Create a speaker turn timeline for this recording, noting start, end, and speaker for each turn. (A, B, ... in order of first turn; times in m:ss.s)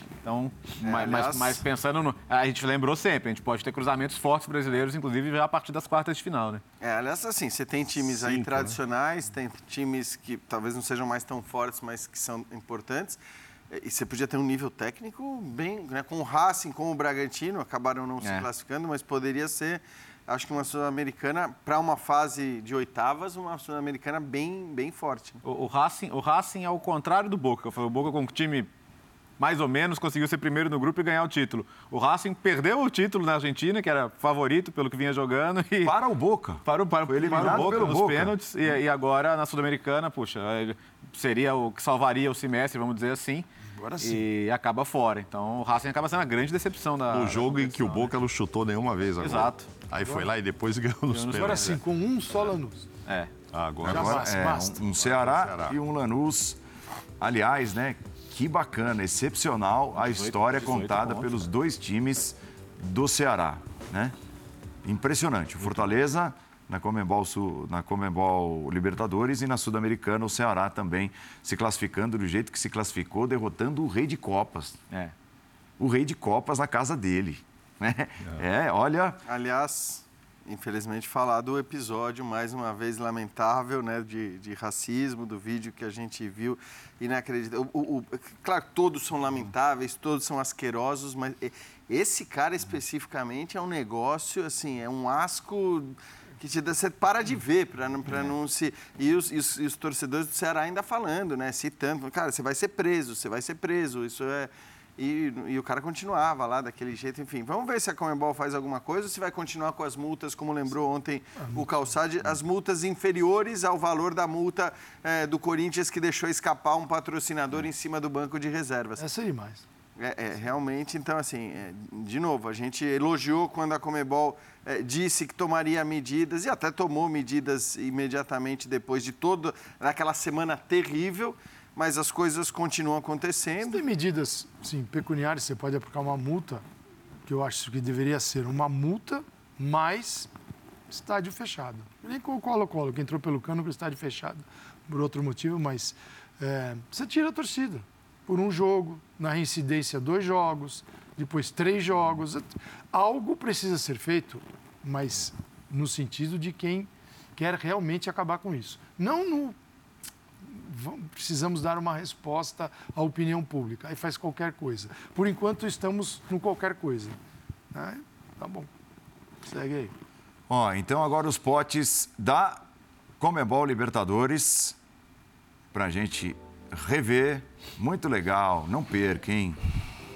0:00.2-0:06.6 A
0:00.8-0:01.6 B
0:06.8-0:25.4 B
0:08.0-0:08.8 C
0:18.2-0:18.5 A
0:25.4-0:28.7 A
0:29.4-0:36.0 A
0:35.8-0:38.4 D
0:36.6-0:43.5 A
0:43.8-0:44.2 E
0:44.0-0:48.1 A
0:47.1-0:51.8 C
0:49.2-0:49.7 A
0:50.0-0:50.3 E
0:51.1-0:51.8 A
0:51.3-0:52.9 E
0:53.1-0:53.3 A
0:53.5-0:54.3 C
0:53.8-0:56.6 D
0:53.9-0:54.8 E
0:55.0-0:55.8 C
0:57.2-1:04.1 D
1:00.0-1:01.4 A
1:04.8-1:14.8 D
1:15.8-1:19.2 D
1:19.3-1:59.1 B
1:51.4-1:51.7 E
1:59.0-1:59.6 E
2:00.0-2:13.8 B
2:13.6-2:16.6 E
2:17.3-2:20.3 E
2:20.9-2:39.6 E
2:40.4-2:47.2 E
2:47.7-2:48.7 E
2:49.4-2:49.9 E
2:50.5-2:52.6 D
2:53.2-2:54.8 D
2:55.7-2:59.6 D